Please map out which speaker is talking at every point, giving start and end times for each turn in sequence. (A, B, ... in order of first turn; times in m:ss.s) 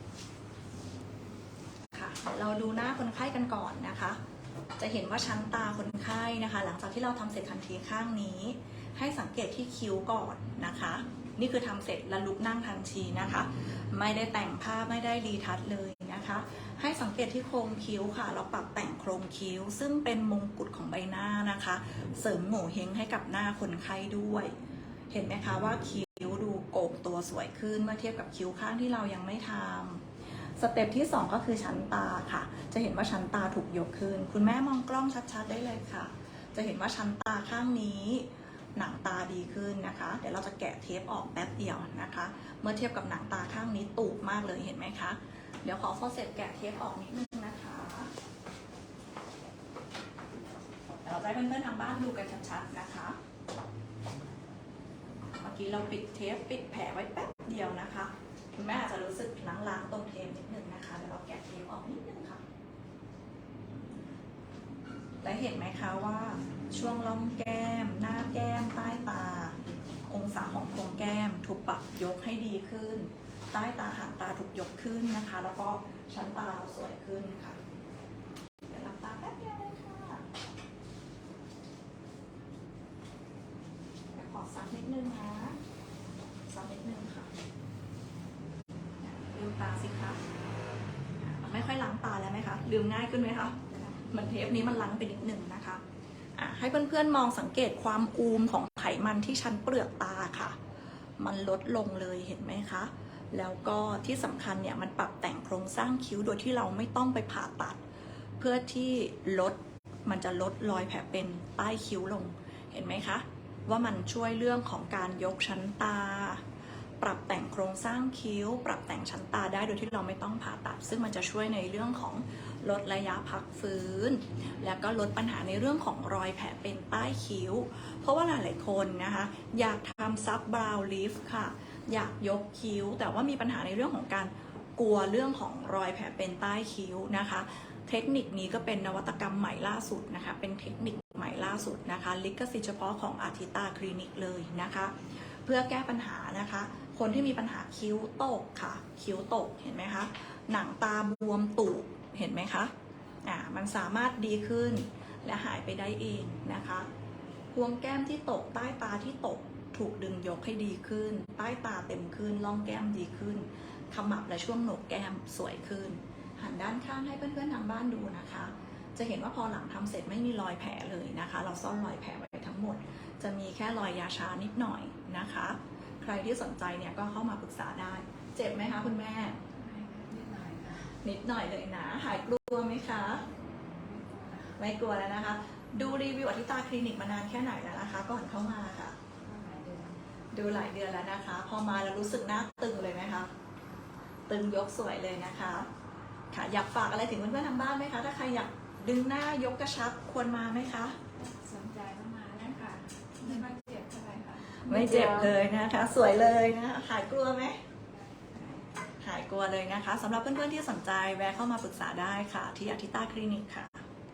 0:01.9-0:04.2 A
0:04.8-0:24.6 A
0:25.1-0:48.1 A
0:51.0-0:53.2 A
0:55.3-1:02.4 A
1:05.2-1:17.6 A
1:18.7-1:20.3 A
1:24.1-1:25.6 A
1:26.5-1:27.3 A
1:29.0-1:30.2 A
1:31.2-1:35.8 A
1:36.4-1:40.6 A
1:41.2-1:47.8 A
1:48.4-1:56.4 A
1:57.0-2:32.7 A
2:33.2-2:36.9 A
2:37.5-2:59.4 A
2:59.6-3:00.9 B
3:00.9-3:03.3 A
3:03.6-3:04.5 B
3:04.5-3:09.0 A
3:09.2-3:10.0 B
3:10.3-3:13.3 A
3:14.3-3:15.7 A
3:16.3-3:21.0 A
3:21.2-3:25.3 B
3:24.5-3:27.6 A
3:29.0-3:33.8 A